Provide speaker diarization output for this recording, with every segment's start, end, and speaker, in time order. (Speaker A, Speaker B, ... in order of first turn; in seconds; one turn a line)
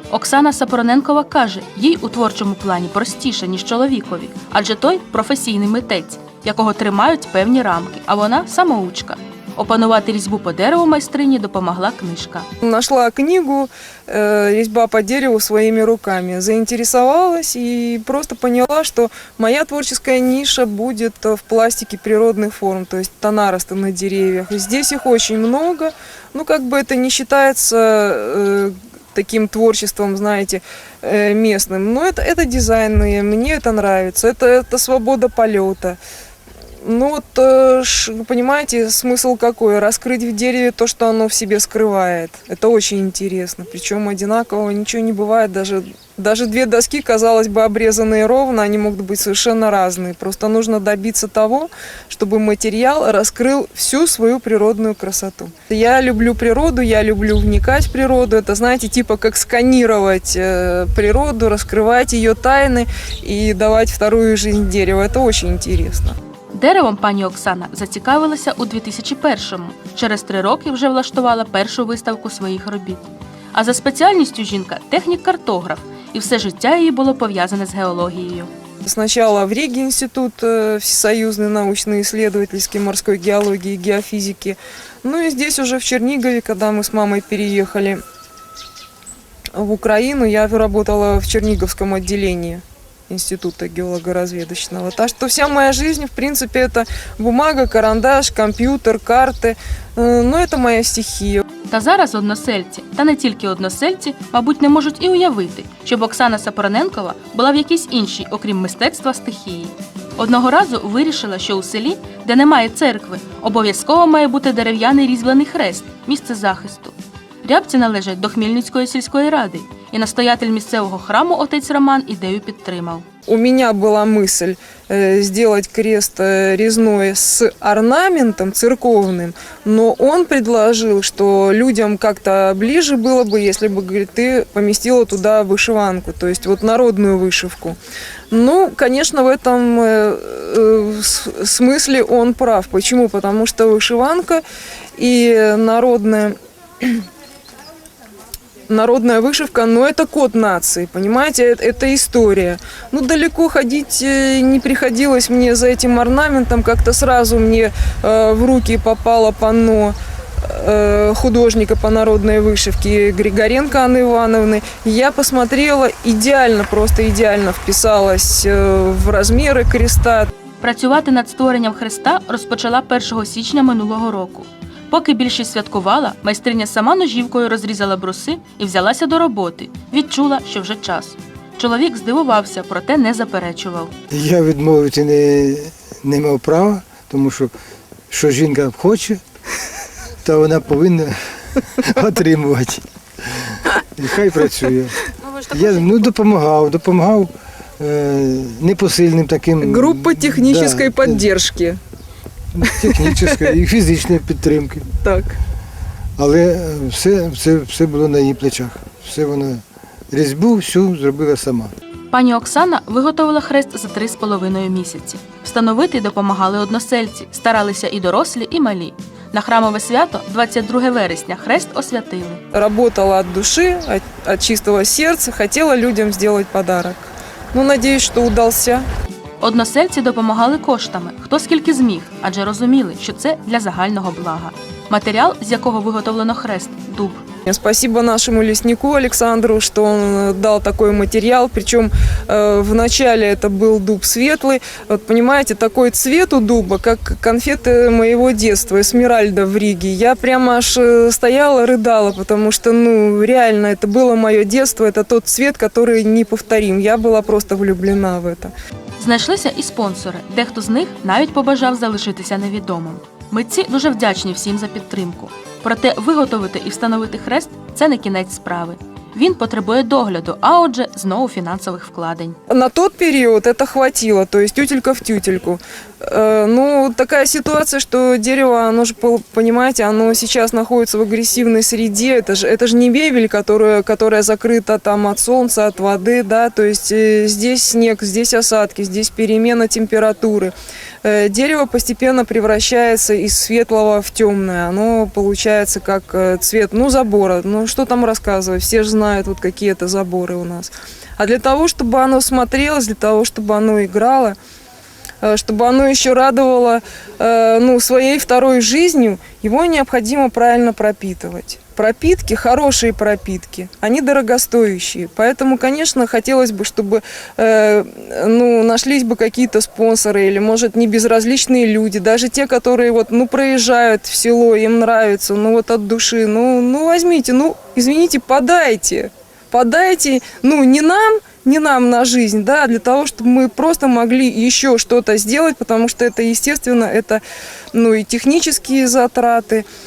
Speaker A: 0.1-12.5
Speaker B: 12.7-36.0
Speaker B: 36.9-66.1
Speaker A: 66.5-78.5
Speaker B: 78.9-88.0
Speaker B: 89.6-92.6
Speaker B: 93.1-101.3
Speaker A: 101.7-123.1
Speaker B: 123.4-137.7
Speaker B: 138.3-144.4
Speaker B: 145.0-146.3
Speaker B: 148.7-160.0
Speaker B: 160.6-170.2
Speaker A: 170.6-183.9
Speaker C: 184.1-187.5
Speaker C: 188.1-189.2
Speaker C: 190.2-195.0
Speaker C: 195.5-201.3
Speaker B: 199.7-201.7
Speaker C: 202.6-204.9
Speaker C: 206.2-211.7
Speaker A: 212.1-222.4
Speaker B: 222.8-228.8
Speaker A: 229.4-237.2
Speaker B: 237.5-258.5
Speaker A: 259.0-272.4
Speaker B: 272.6-275.6
Speaker B: 276.1-290.5
Speaker B: 291.1-304.4
Speaker B: 305.2-337.2
Speaker B: 337.8-339.6